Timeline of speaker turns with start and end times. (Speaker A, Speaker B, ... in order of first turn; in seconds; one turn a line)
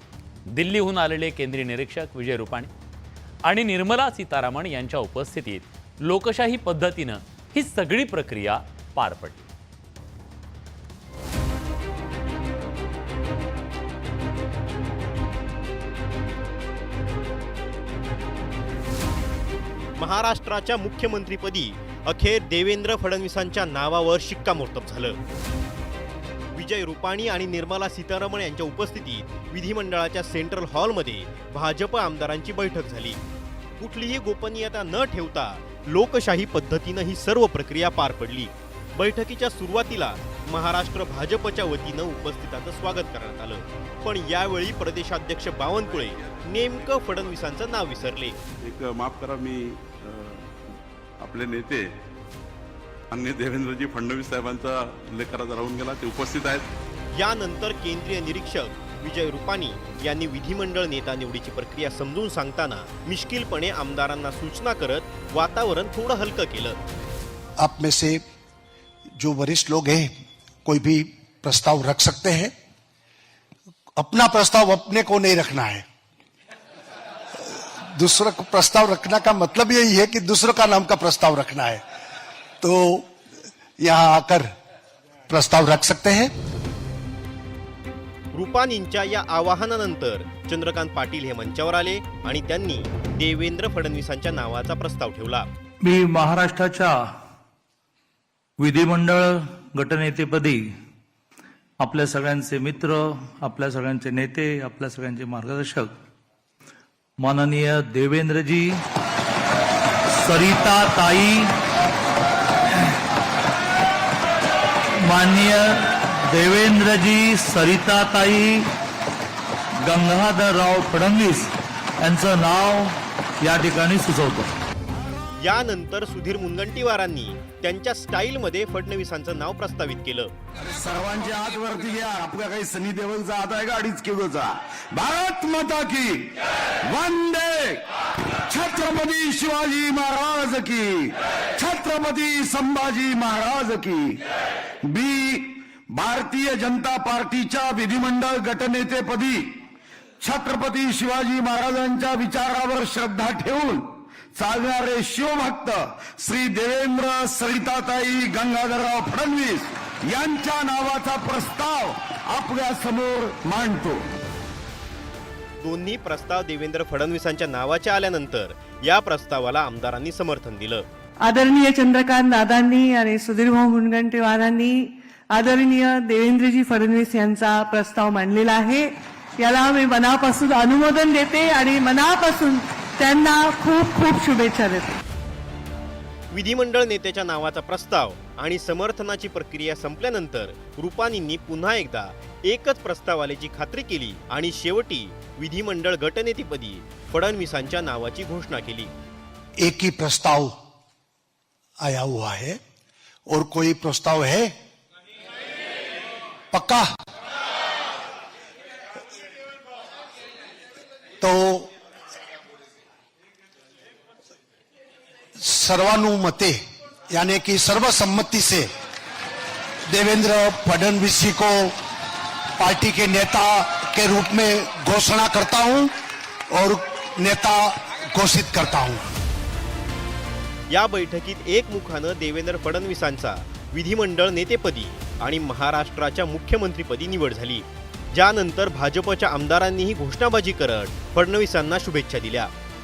Speaker A: 0.5-2.7
Speaker A: 3.5-9.5
Speaker B: 20.0-25.2
Speaker B: 26.6-33.2
Speaker B: 33.8-48.4
Speaker C: 48.6-50.5
Speaker C: 51.2-51.9
Speaker C: 53.1-56.7
Speaker B: 57.1-66.8
Speaker D: 67.6-68.2
Speaker D: 69.2-70.1
Speaker D: 70.7-72.5
Speaker D: 74.0-75.8
Speaker D: 77.8-81.8
Speaker D: 82.6-83.1
Speaker D: 83.8-84.5
Speaker D: 85.3-86.3
Speaker B: 88.3-95.5
Speaker E: 95.8-97.0
Speaker E: 98.6-100.6
Speaker E: 101.8-105.9
Speaker E: 107.2-108.8
Speaker E: 110.1-111.5
Speaker E: 115.0-118.7
Speaker E: 119.8-124.5
Speaker B: 125.4-130.3
Speaker F: 130.7-137.8
Speaker F: 138.5-144.2
Speaker F: 144.8-149.5
Speaker F: 150.2-164.1
Speaker B: 165.6-170.8
Speaker G: 171.2-185.0
Speaker B: 186.3-198.9
Speaker D: 199.6-200.5
Speaker D: 201.8-202.6
Speaker D: 203.3-204.5
Speaker D: 206.5-206.8
Speaker D: 211.2-211.7
Speaker D: 215.4-216.6
Speaker D: 217.1-218.7
Speaker D: 219.9-221.7
Speaker D: 222.6-225.9
Speaker D: 226.5-229.1
Speaker B: 230.7-242.5